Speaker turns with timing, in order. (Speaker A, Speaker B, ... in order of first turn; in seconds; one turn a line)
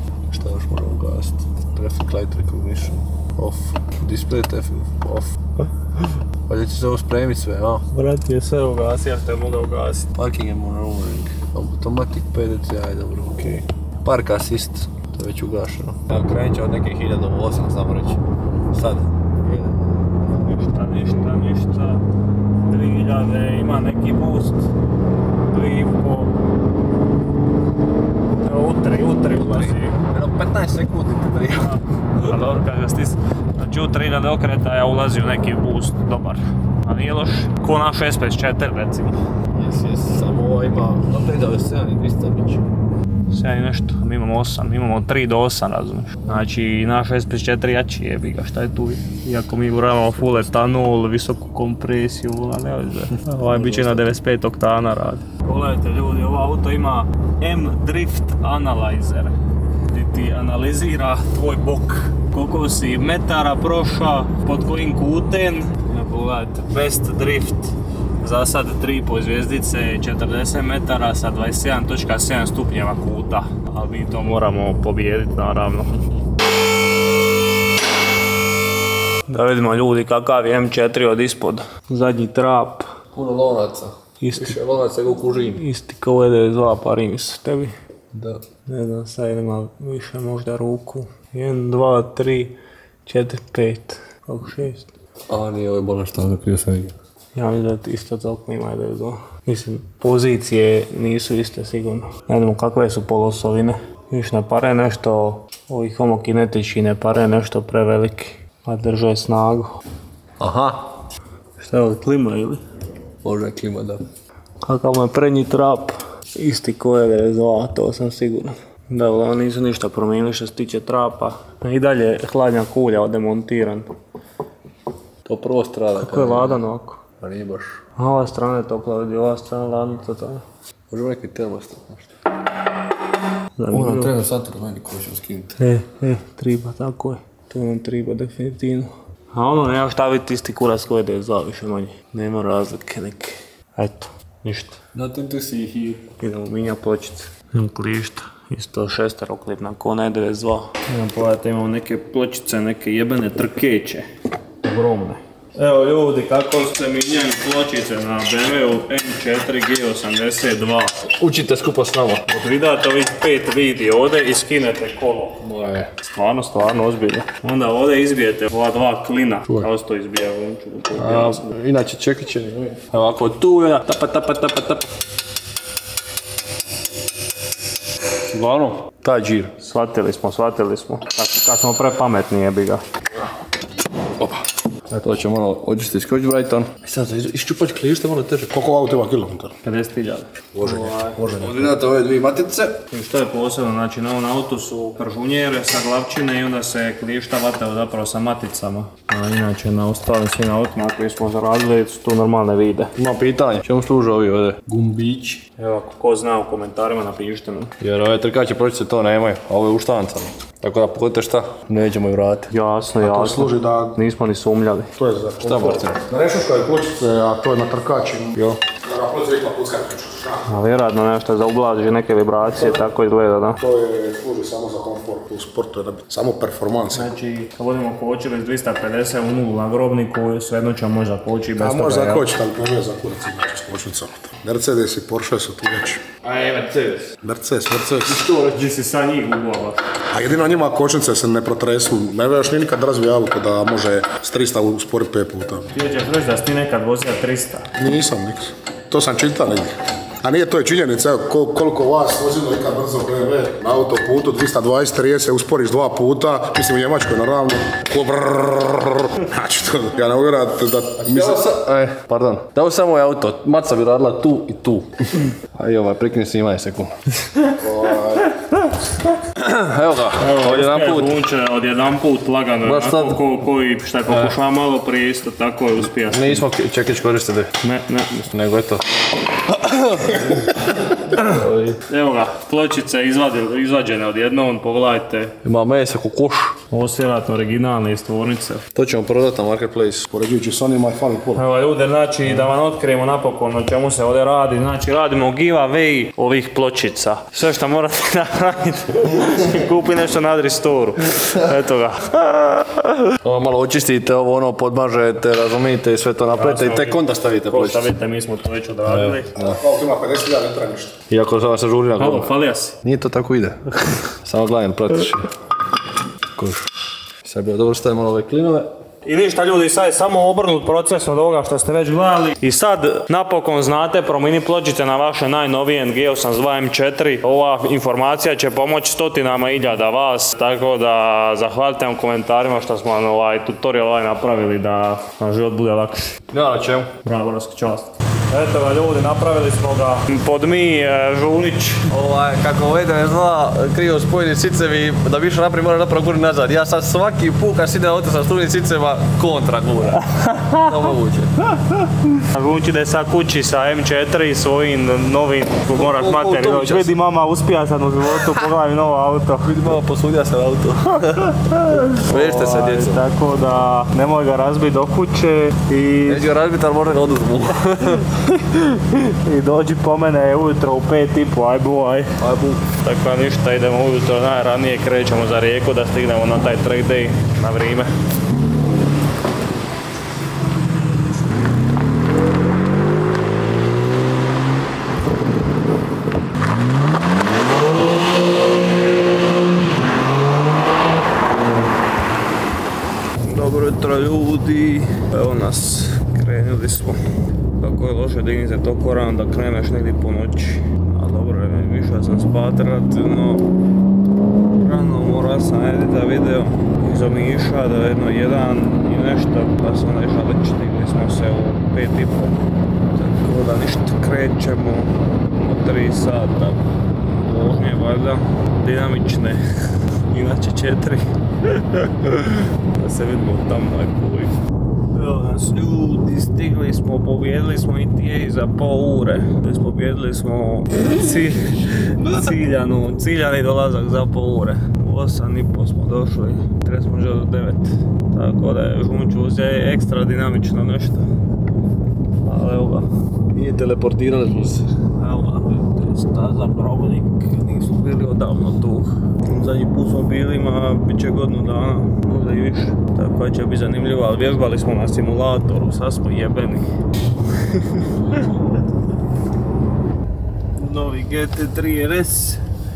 Speaker A: 0.3-5.3
Speaker A: 6.5-7.8
Speaker B: 7.9-10.1
Speaker A: 10.2-18.2
Speaker A: 18.7-19.8
Speaker B: 20.4-22.0
Speaker B: 22.7-24.7
Speaker B: 25.5-26.3
Speaker B: 28.4-30.0
Speaker A: 29.4-31.7
Speaker B: 31.6-39.2
Speaker A: 39.5-42.6
Speaker B: 43.3-59.4
Speaker A: 53.6-54.0
Speaker B: 59.9-76.0
Speaker B: 79.3-82.9
Speaker A: 83.1-85.6
Speaker B: 84.2-84.6
Speaker B: 85.5-87.8
Speaker A: 88.1-88.4
Speaker B: 88.7-92.5
Speaker B: 93.1-94.9
Speaker A: 95.3-97.0
Speaker B: 97.3-109.7
Speaker A: 110.4-110.8
Speaker B: 111.6-112.6
Speaker A: 113.2-114.0
Speaker B: 114.6-123.9
Speaker A: 125.2-126.6
Speaker B: 126.0-127.0
Speaker A: 127.2-127.8
Speaker B: 128.0-130.4
Speaker A: 130.9-132.1
Speaker B: 133.6-134.1
Speaker A: 133.7-135.6
Speaker B: 135.6-144.8
Speaker A: 144.9-146.0
Speaker B: 146.1-154.1
Speaker B: 154.6-160.9
Speaker A: 161.2-162.2
Speaker B: 162.3-165.4
Speaker A: 165.4-165.9
Speaker B: 166.0-171.5
Speaker A: 171.0-172.9
Speaker B: 172.9-174.8
Speaker A: 178.3-179.5
Speaker B: 179.6-182.8
Speaker A: 184.2-188.5
Speaker C: 188.5-189.5
Speaker B: 189.6-191.4
Speaker A: 190.6-192.8
Speaker B: 192.9-202.9
Speaker A: 203.0-205.4
Speaker B: 205.5-207.7
Speaker A: 207.8-212.5
Speaker B: 212.5-214.9
Speaker C: 213.0-214.0
Speaker C: 215.0-220.5
Speaker A: 215.4-216.0
Speaker B: 220.5-223.6
Speaker C: 223.6-227.1
Speaker B: 226.9-232.3
Speaker C: 231.6-236.1
Speaker A: 236.2-237.1
Speaker C: 237.2-238.2
Speaker B: 238.2-239.8
Speaker C: 240.1-245.7
Speaker B: 245.7-247.7
Speaker C: 247.8-261.4
Speaker A: 261.0-264.9
Speaker A: 265.5-267.0
Speaker C: 267.6-268.2
Speaker A: 269.4-271.2
Speaker B: 270.2-276.4
Speaker A: 272.6-273.2
Speaker A: 275.9-277.5
Speaker B: 277.6-278.3
Speaker A: 278.3-278.8
Speaker A: 279.5-281.8
Speaker B: 281.9-285.4
Speaker A: 285.4-286.6
Speaker B: 286.7-288.6
Speaker A: 288.8-290.1
Speaker C: 290.1-291.4
Speaker B: 291.4-302.8
Speaker A: 303.2-307.9
Speaker B: 306.4-309.3
Speaker A: 308.9-309.6
Speaker C: 309.4-311.0
Speaker A: 311.1-315.3
Speaker B: 312.0-312.8
Speaker A: 316.4-316.7
Speaker A: 317.2-318.7
Speaker B: 319.1-336.2
Speaker A: 336.3-336.9
Speaker B: 337.0-341.9
Speaker A: 341.9-350.1
Speaker B: 350.1-350.7
Speaker A: 350.6-351.3
Speaker B: 352.1-359.5
Speaker A: 355.8-356.9
Speaker A: 359.4-361.3
Speaker B: 361.3-366.2
Speaker A: 362.0-363.0
Speaker A: 366.1-368.1
Speaker B: 368.0-372.1
Speaker A: 372.2-372.6
Speaker B: 372.8-377.9
Speaker B: 393.2-397.0
Speaker B: 397.6-403.4
Speaker B: 404.6-416.6
Speaker B: 417.2-419.4
Speaker B: 420.1-424.4
Speaker B: 424.9-441.1
Speaker B: 442.2-442.9
Speaker A: 443.3-444.6
Speaker B: 445.0-456.7
Speaker B: 460.6-462.4